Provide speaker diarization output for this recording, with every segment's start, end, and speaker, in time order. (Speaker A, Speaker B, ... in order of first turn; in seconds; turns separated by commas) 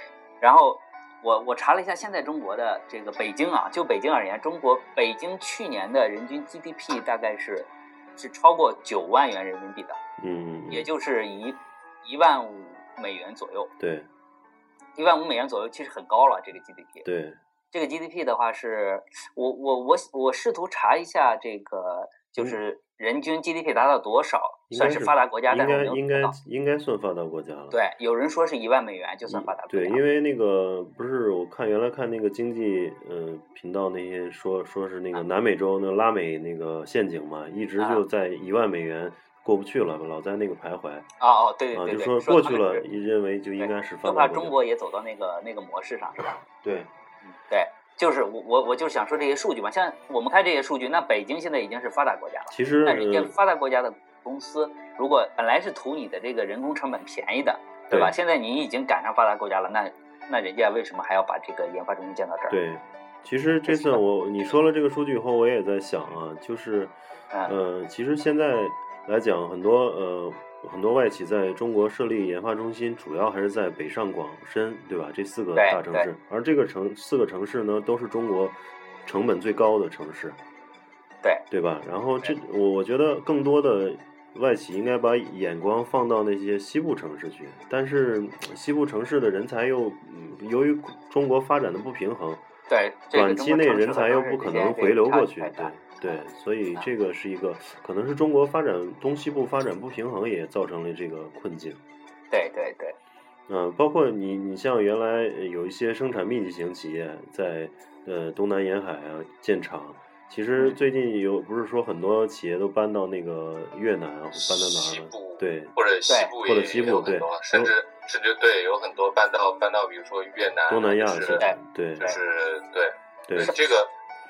Speaker A: 0.4-10.0, Speaker B: 10.2-10.9, Speaker A: 10.7-13.7, Speaker B: 13.8-14.1, Speaker A: 14.9-17.1, Speaker B: 17.0-17.4, Speaker A: 17.7-26.3, Speaker B: 24.7-27.8, Speaker A: 27.7-30.0, Speaker B: 29.3-41.1, Speaker A: 41.2-42.8, Speaker B: 41.7-44.6, Speaker A: 43.6-46.4, Speaker B: 46.6-46.9, Speaker A: 47.2-62.6, Speaker B: 52.5-53.3, Speaker B: 62.5-80.4, Speaker A: 63.7-64.0, Speaker A: 75.5-76.1, Speaker B: 81.5-92.4, Speaker A: 92.7-96.2, Speaker B: 93.1-101.8, Speaker A: 102.3-103.0, Speaker B: 103.5-115.7, Speaker C: 114.3-121.4, Speaker A: 116.1-116.3, Speaker B: 116.4-117.7, Speaker B: 120.7-122.1, Speaker A: 121.3-122.2, Speaker C: 122.0-123.9, Speaker B: 123.3-123.5